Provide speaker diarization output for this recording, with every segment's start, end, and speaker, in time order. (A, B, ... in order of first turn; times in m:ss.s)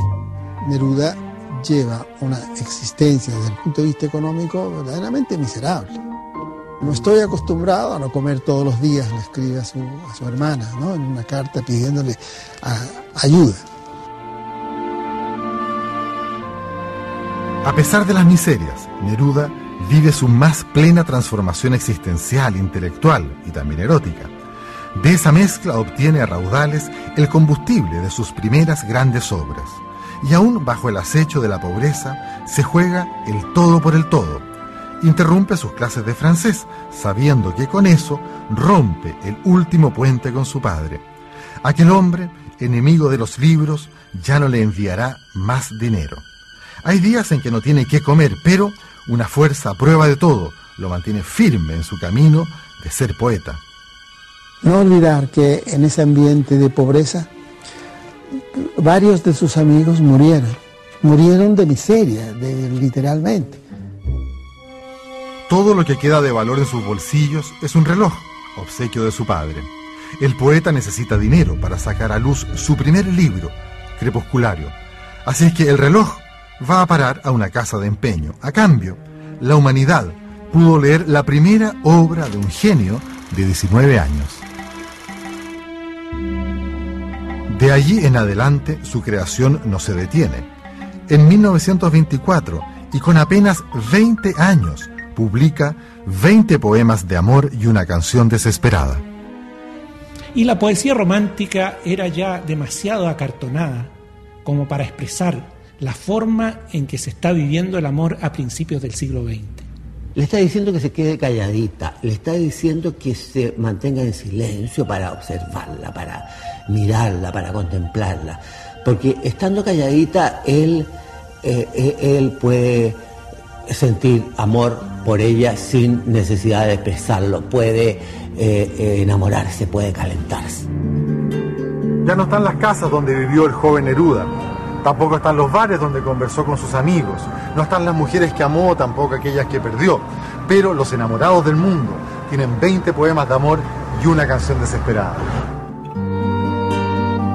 0:00.6-0:06.0 A
0:06.8-0:13.6 A
0:17.6-0:24.3 B
0:24.9-0:34.4 B
0:35.0-0:41.0 B
0:41.6-0:46.2 B
0:46.8-0:53.6 B
0:54.6-0:57.3 A
0:58.5-1:03.6 A
1:05.5-1:24.4 B
1:27.5-1:30.5 B
1:31.1-1:39.0 B
1:40.3-1:43.9 C
1:44.4-1:49.7 C
1:50.1-2:00.9 D
2:01.4-2:03.0 D
2:03.7-2:10.7 D
2:12.0-2:25.4 B